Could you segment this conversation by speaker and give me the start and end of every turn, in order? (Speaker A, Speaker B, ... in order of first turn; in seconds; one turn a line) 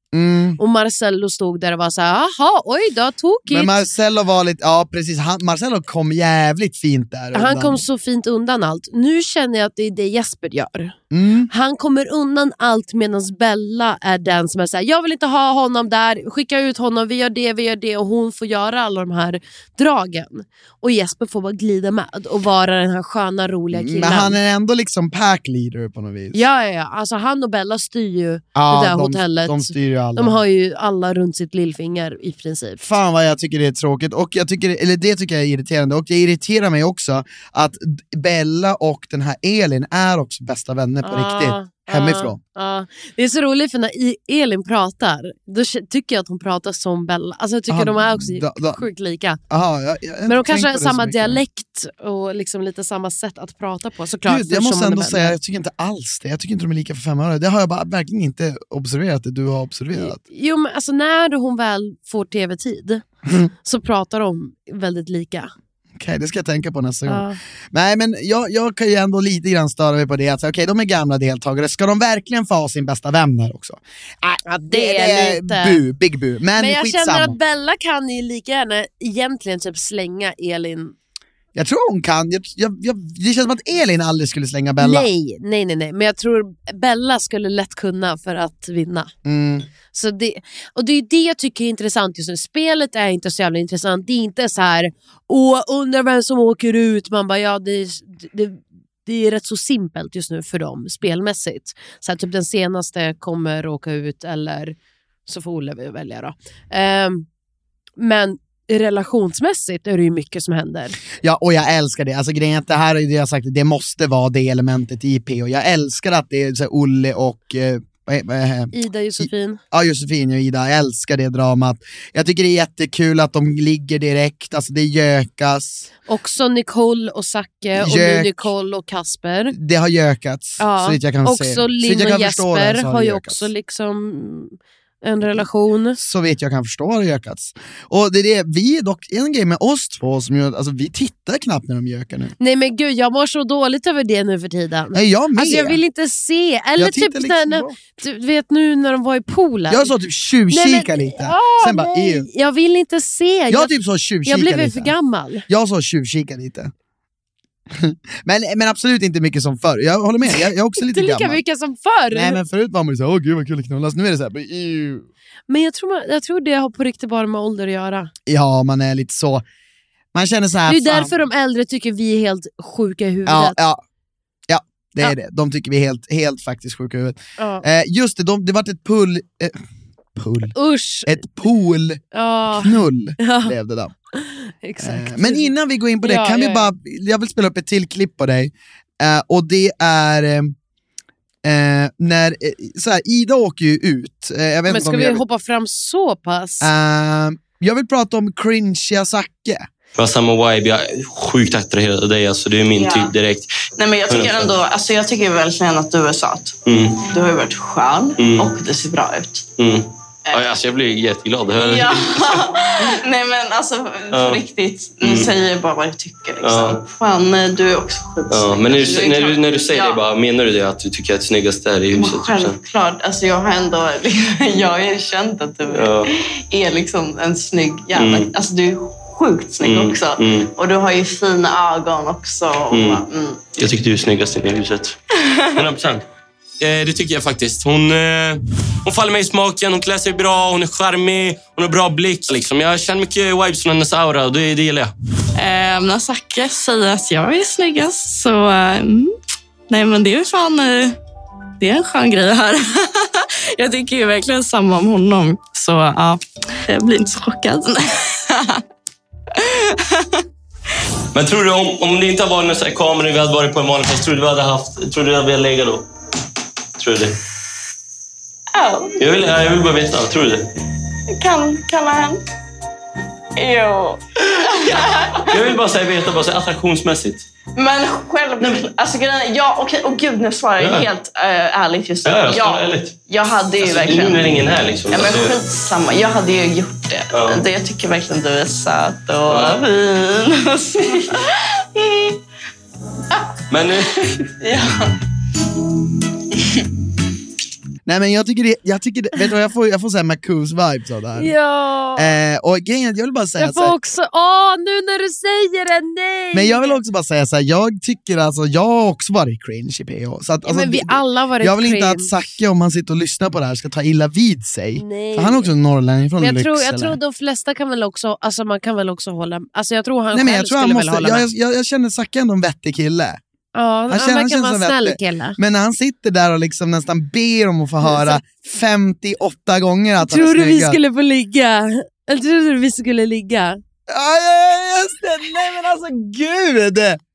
Speaker A: 0.1-0.6
Speaker B: 0.6-3.8
Speaker A: 3.5-7.8
Speaker B: 7.3-11.0
Speaker A: 11.1-11.5
Speaker B: 11.5-24.4
Speaker A: 23.7-26.4
Speaker B: 26.3-32.8
Speaker A: 28.6-30.4
Speaker A: 32.8-42.4
Speaker B: 41.0-49.4
Speaker A: 47.7-48.8
Speaker A: 49.5-51.4
Speaker B: 50.3-55.4
Speaker A: 54.2-60.2
Speaker B: 59.9-63.0
Speaker A: 63.3-63.5
Speaker B: 63.6-65.5
Speaker A: 66.0-77.4
Speaker B: 67.1-67.4
Speaker B: 74.5-75.8
Speaker B: 76.6-81.0
Speaker A: 81.5-85.1
Speaker B: 84.8-89.1
Speaker A: 89.2-89.7
Speaker B: 89.9-107.3
Speaker B: 108.0-111.0
Speaker A: 111.2-125.9
Speaker B: 118.7-119.6
Speaker B: 126.1-129.6
Speaker A: 127.8-128.5
Speaker A: 129.5-133.5
Speaker B: 130.6-136.0
Speaker A: 136.0-142.3
Speaker B: 142.4-149.9
Speaker A: 144.9-145.8
Speaker A: 146.8-147.9
Speaker A: 149.7-152.3
Speaker B: 150.5-153.7
Speaker A: 153.5-154.9
Speaker B: 154.2-155.5
Speaker A: 155.5-156.7
Speaker A: 157.7-161.4
Speaker B: 160.3-162.4
Speaker A: 162.1-165.1
Speaker B: 165.5-168.1
Speaker A: 168.3-169.4
Speaker A: 170.1-171.1
Speaker B: 170.7-173.6
Speaker A: 173.3-173.8
Speaker A: 174.5-179.6
Speaker B: 177.4-177.6
Speaker A: 180.2-182.0
Speaker B: 180.6-181.2
Speaker B: 182.1-183.5
Speaker A: 182.6-183.9
Speaker B: 184.1-186.7
Speaker A: 184.8-190.6
Speaker A: 191.4-195.2
Speaker B: 194.7-196.7
Speaker A: 196.6-199.7
Speaker C: 200.0-203.5
Speaker D: 202.7-203.1
Speaker D: 203.8-209.5
Speaker C: 204.1-204.6
Speaker C: 206.7-207.0
Speaker C: 208.2-208.5
Speaker C: 209.6-212.5
Speaker D: 211.6-220.0
Speaker C: 214.1-214.4
Speaker C: 215.0-215.3
Speaker C: 216.4-216.8
Speaker C: 218.3-222.6
Speaker D: 221.9-233.4
Speaker C: 225.7-226.1
Speaker C: 227.9-228.3
Speaker C: 229.6-230.5
Speaker C: 232.7-233.0
Speaker C: 233.6-235.0
Speaker C: 235.5-236.0
Speaker C: 236.6-244.9
Speaker E: 245.4-249.2
Speaker E: 249.7-251.0
Speaker E: 251.6-258.6
Speaker E: 259.4-260.2
Speaker C: 261.1-265.8
Speaker C: 266.8-267.1
Speaker D: 268.5-269.3
Speaker C: 269.0-270.5
Speaker D: 271.1-272.2
Speaker D: 273.4-275.6
Speaker C: 274.6-277.2
Speaker D: 277.6-292.2
Speaker C: 280.6-280.9
Speaker C: 282.1-283.1
Speaker C: 283.6-285.4
Speaker C: 287.1-287.4
Speaker C: 289.3-289.6
Speaker C: 293.5-294.2
Speaker D: 294.4-294.9
Speaker A: 297.9-301.3
Speaker B: 301.2-302.1
Speaker A: 302.0-303.8
Speaker B: 303.4-306.8
Speaker A: 306.3-317.0
Speaker B: 310.4-312.1
Speaker B: 314.8-315.5
Speaker B: 316.2-321.3
Speaker A: 320.1-323.2
Speaker B: 323.6-325.4
Speaker A: 323.9-330.8
Speaker B: 327.8-328.2
Speaker B: 330.0-333.6
Speaker A: 333.9-337.0